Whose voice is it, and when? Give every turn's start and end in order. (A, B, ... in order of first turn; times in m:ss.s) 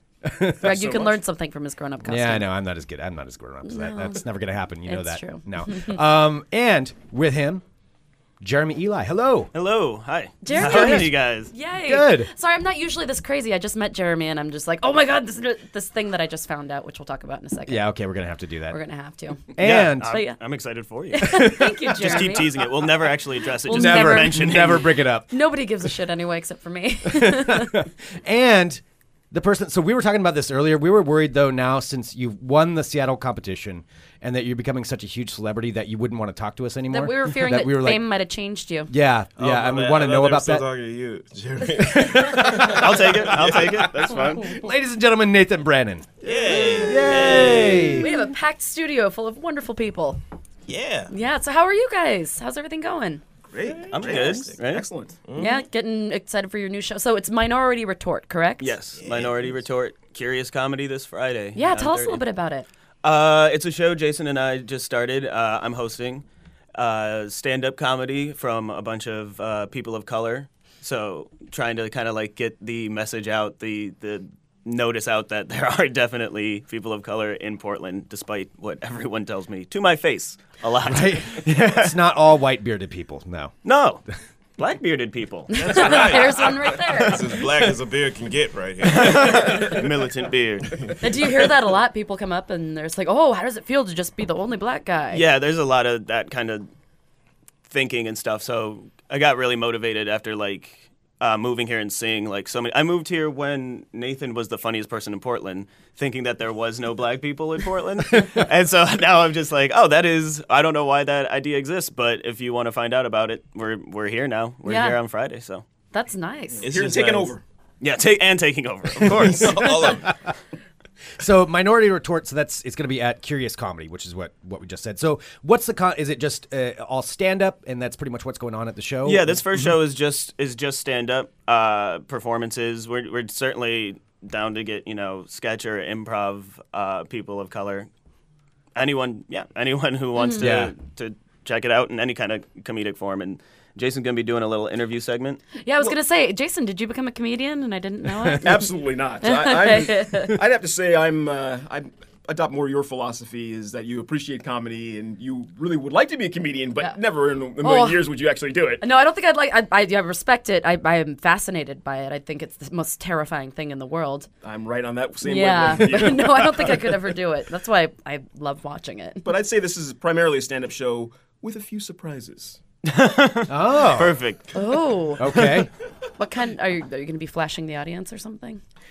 0:00.3-0:00.6 A
0:00.6-0:02.5 B
0:00.6-0:01.2 C
0:02.0-0:07.6 A
0:03.6-0:04.2 B
0:04.9-0:06.0 B
0:08.4-0:09.5 A
0:09.5-0:11.5 D
0:10.4-0:17.9 B
0:10.5-0:11.1 A
0:11.8-0:12.3 A
0:17.7-0:18.8 A
0:18.7-0:19.5 B
0:19.5-0:20.2 A
0:19.6-0:24.9 D
0:20.1-0:20.4 B
0:21.1-0:22.8 B
0:21.2-0:22.3 A
0:23.6-0:24.7 B
0:23.7-0:25.3 A
0:25.3-0:27.9 B
0:27.1-0:38.0 A
0:36.9-0:38.9 B
0:38.9-0:40.6 A
0:39.4-0:44.3 E
0:41.8-0:42.9 A
0:42.6-0:44.6 D
0:44.4-0:48.1 A
0:46.2-0:48.0 E
0:47.9-0:50.2 B
0:50.7-0:51.1 E
0:51.1-0:53.2 B
0:53.5-0:55.2 C
0:53.6-0:54.6 E
0:53.9-0:54.9 D
0:55.2-0:55.6 E
0:55.4-0:58.8 B
0:58.6-1:02.2 D
0:59.0-0:59.7 E
1:01.5-1:02.7 B
1:03.0-1:06.2 D
1:06.8-1:22.0 D
1:20.9-1:23.5 A
1:23.6-1:24.0 D
1:24.6-1:27.1 D
1:25.5-1:27.4 B
1:25.6-1:29.9 E
1:28.8-1:30.8 D
1:30.7-1:31.5 E
1:31.0-1:35.2 B
1:35.1-1:36.7 D
1:37.7-1:55.6 D
1:54.6-1:55.0 B
1:55.9-1:56.7 B
1:56.6-1:57.4 C
1:56.6-1:57.4 E
1:57.8-2:00.0 D
1:59.0-2:00.2 E
2:01.2-2:09.7 A
2:09.0-2:17.9 D
2:18.8-2:25.4 D
2:20.2-2:20.4 B
2:20.4-2:20.7 A
2:25.6-2:30.4 B
2:28.4-2:38.8 C
2:37.6-2:38.1 B
2:38.8-2:44.3 B
2:44.4-2:46.9 C
2:45.2-2:49.3 B
2:49.2-2:52.6 C
2:52.8-2:54.5 D
2:53.5-2:54.2 A
2:54.5-2:55.6 B
2:55.2-2:55.7 A
2:56.2-2:58.6 B